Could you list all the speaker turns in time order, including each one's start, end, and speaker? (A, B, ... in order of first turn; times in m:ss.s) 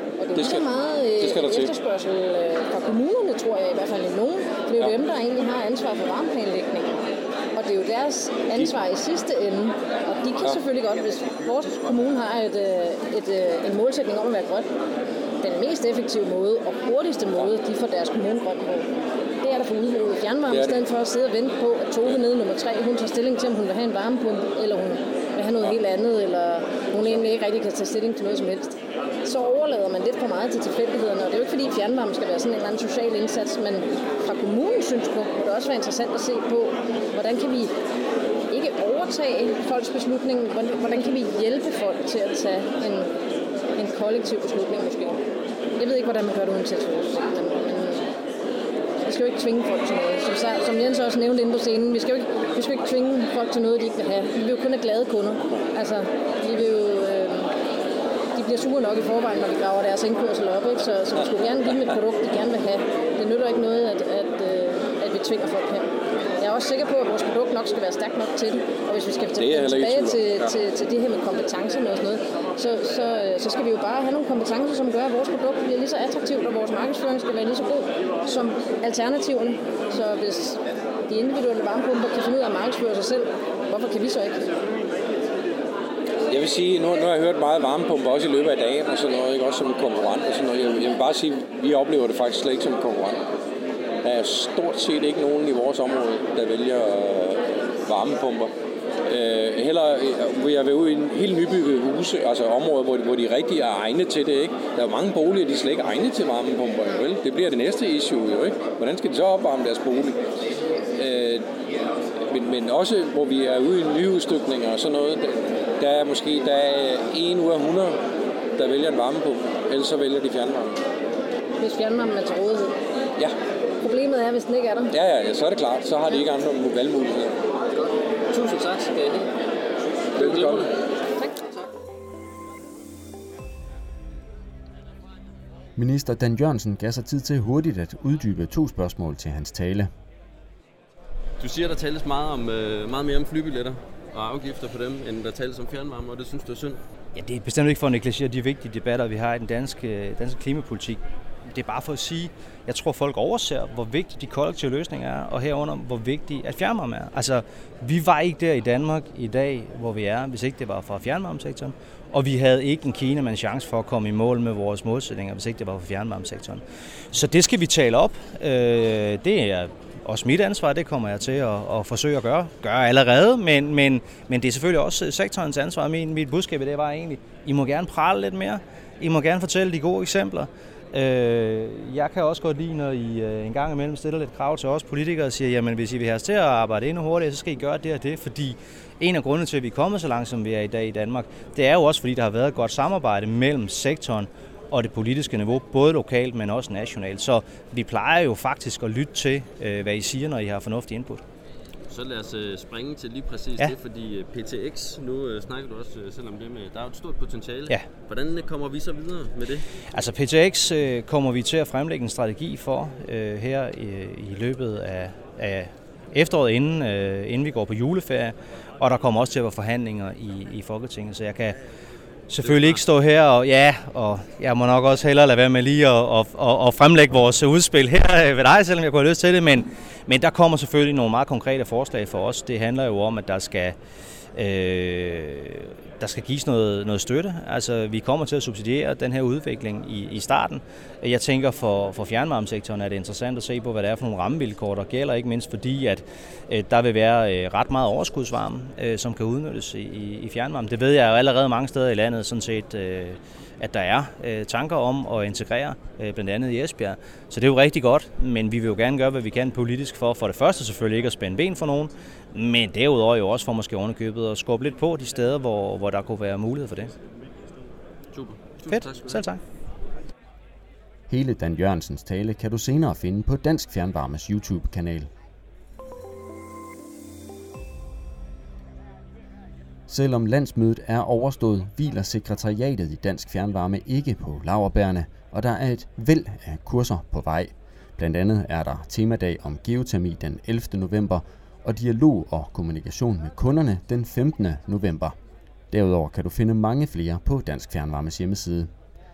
0:00.2-0:07.0 A
0:00.4-0:00.6 B
0:01.2-0:01.7 B
0:07.5-0:14.7 A
0:15.4-0:18.9 A
0:19.4-0:37.7 A
0:38.5-0:43.1 A
0:43.8-0:45.2 A
0:45.8-0:48.0 A
0:49.0-0:57.5 A
0:58.4-1:24.5 A
1:09.4-1:10.5 B
1:26.3-1:33.2 B
1:34.0-1:38.5 B
1:39.0-1:50.2 B
1:51.0-1:51.4 B
1:52.3-1:58.0 B
1:58.6-2:00.8 B
2:01.6-2:02.8 A
2:03.8-2:04.9 A
2:04.9-2:07.4 B
2:07.7-2:09.3 C
2:10.2-2:10.7 C
2:10.2-2:10.7 B
2:15.8-2:19.9 D
2:21.4-2:26.8 C
2:27.2-2:46.6 E
2:47.1-3:21.2 E
3:21.9-3:29.6 C
3:29.9-3:41.6 E
3:42.3-3:53.8 E
3:42.4-3:42.8 C
3:54.4-4:26.9 E
4:28.1-4:29.2 C
4:28.7-4:29.4 E
4:31.1-4:35.1 D
4:39.9-4:55.1 D
4:55.7-4:58.7 D